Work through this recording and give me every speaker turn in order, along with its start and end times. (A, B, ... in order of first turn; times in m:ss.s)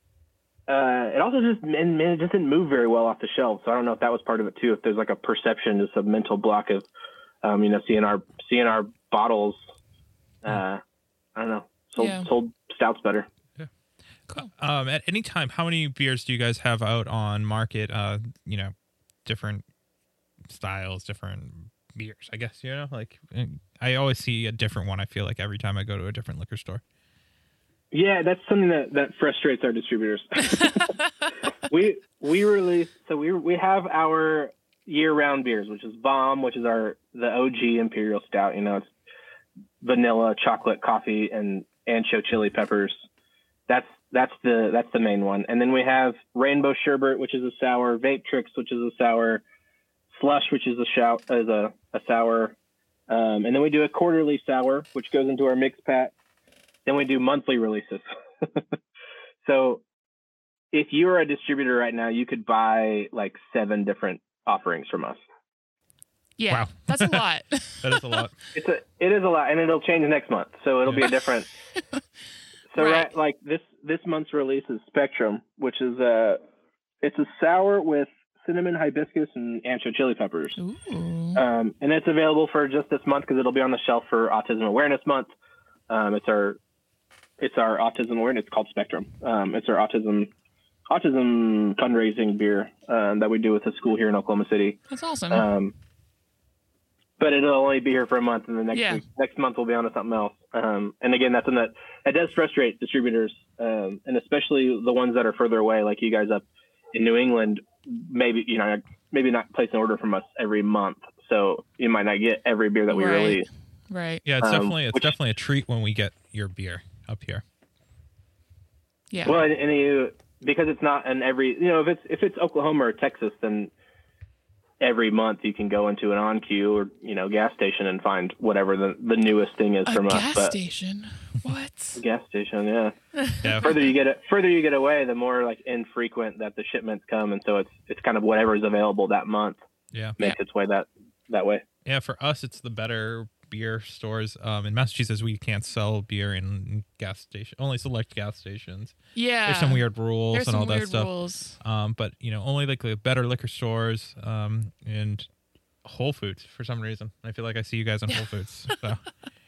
0:00.7-0:06.8 A
0:07.4-0:09.6 A
0:10.4-0:10.8 A
0:11.4-0:13.3 A
0:12.0-0:12.3 B
0:14.3-0:18.7 C
0:19.3-0:19.6 C
0:20.5-0:26.8 C
0:27.9-0:30.9 A
0:31.7-0:38.8 A
0:39.8-0:43.0 A
0:43.7-0:49.4 A
0:50.1-0:52.6 A
0:53.1-0:56.1 A
0:56.9-0:58.6 A
0:59.4-0:59.8 A
1:00.7-1:05.2 A
1:06.4-1:08.0 B
1:06.5-1:07.2 C
1:07.8-1:08.3 C
1:08.6-1:11.5 A
1:12.7-1:16.4 A
1:12.8-1:13.1 B
1:17.0-1:20.6 A
1:20.6-1:21.4 B
1:21.4-1:25.3 A
1:25.9-1:26.6 A
1:27.4-1:30.3 A
1:30.9-1:35.7 A
1:34.9-1:35.5 B
1:37.2-1:53.5 A
1:38.7-1:39.0 B
1:52.9-1:54.2 B
1:54.2-1:57.4 C
1:54.4-1:55.1 A
1:59.1-1:59.4 B
1:59.2-2:03.7 A
2:04.8-2:10.5 A
2:09.9-2:12.0 B
2:12.0-2:13.0 A
2:13.4-2:13.8 C
2:13.6-2:19.6 A
2:19.9-2:20.2 C
2:20.2-2:21.6 A
2:21.8-2:31.1 C
2:29.2-2:31.6 B
2:31.6-2:35.3 C
2:35.8-2:39.0 C